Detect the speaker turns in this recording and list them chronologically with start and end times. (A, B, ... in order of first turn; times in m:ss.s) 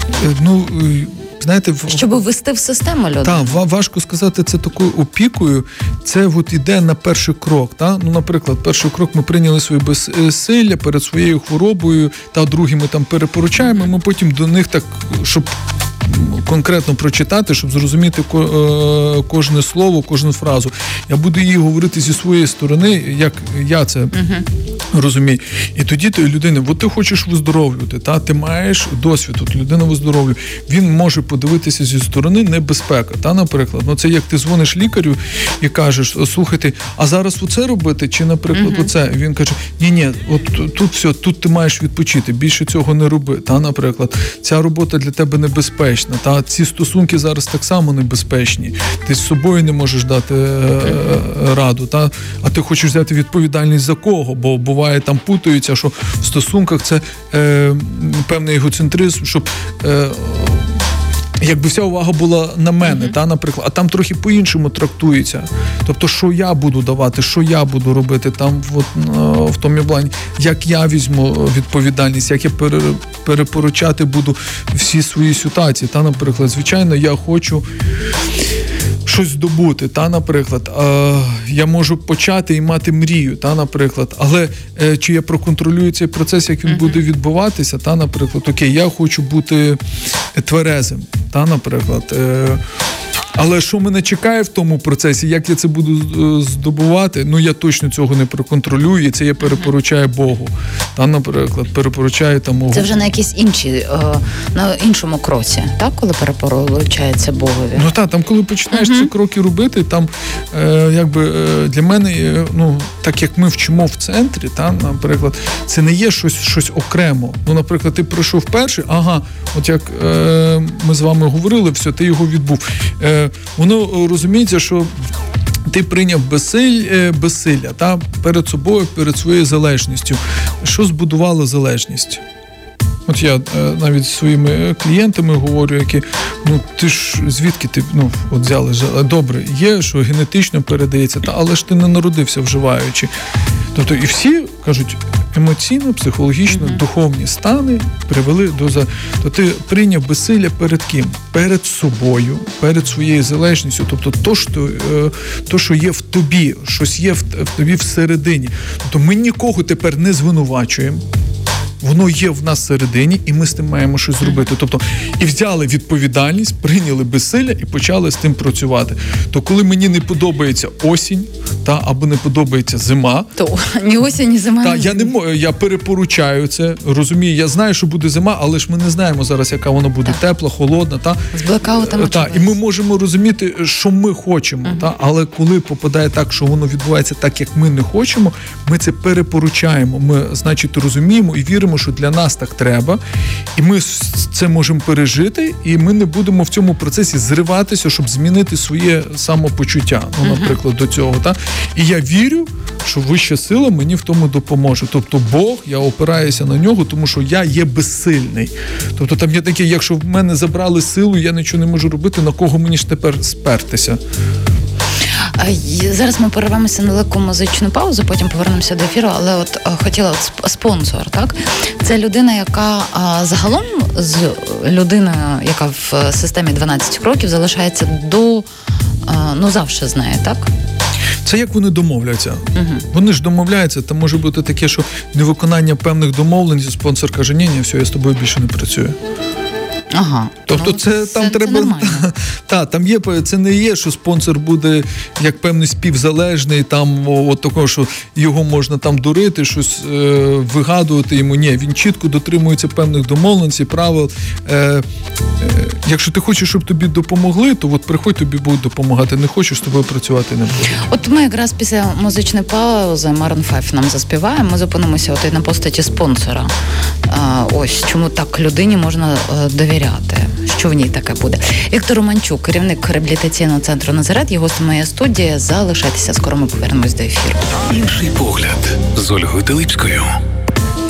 0:00.2-0:02.1 A
0:01.9-0:03.6 B
0:03.2-0:24.2 A
0:13.6-0:13.9 B
0:24.1-0:24.4 B
0:24.9-1:00.7 A
0:38.5-0:38.9 B
1:01.4-1:17.6 A
1:02.8-1:03.1 B
1:19.0-1:29.8 A
1:26.7-1:27.0 B
1:30.3-1:32.6 A
1:33.3-1:42.9 A
1:42.7-1:47.9 B
1:47.7-2:04.9 A
1:48.7-1:49.1 B
2:05.7-2:12.2 A
2:13.1-2:23.1 A
2:23.7-2:41.0 A
2:26.5-2:26.8 B
2:41.8-2:53.3 A
2:53.4-2:55.1 B
2:54.6-3:13.0 A
3:01.3-3:02.6 B
3:13.6-3:34.0 A
3:20.2-3:20.6 B
3:35.4-3:48.5 B
3:49.0-3:50.5 B
3:51.2-3:59.0 A
3:52.5-3:52.8 B
3:59.9-4:02.1 B
4:00.5-4:14.8 A
4:15.4-4:20.7 A
4:20.8-4:26.5 B
4:27.1-4:37.4 B
4:37.7-4:40.1 C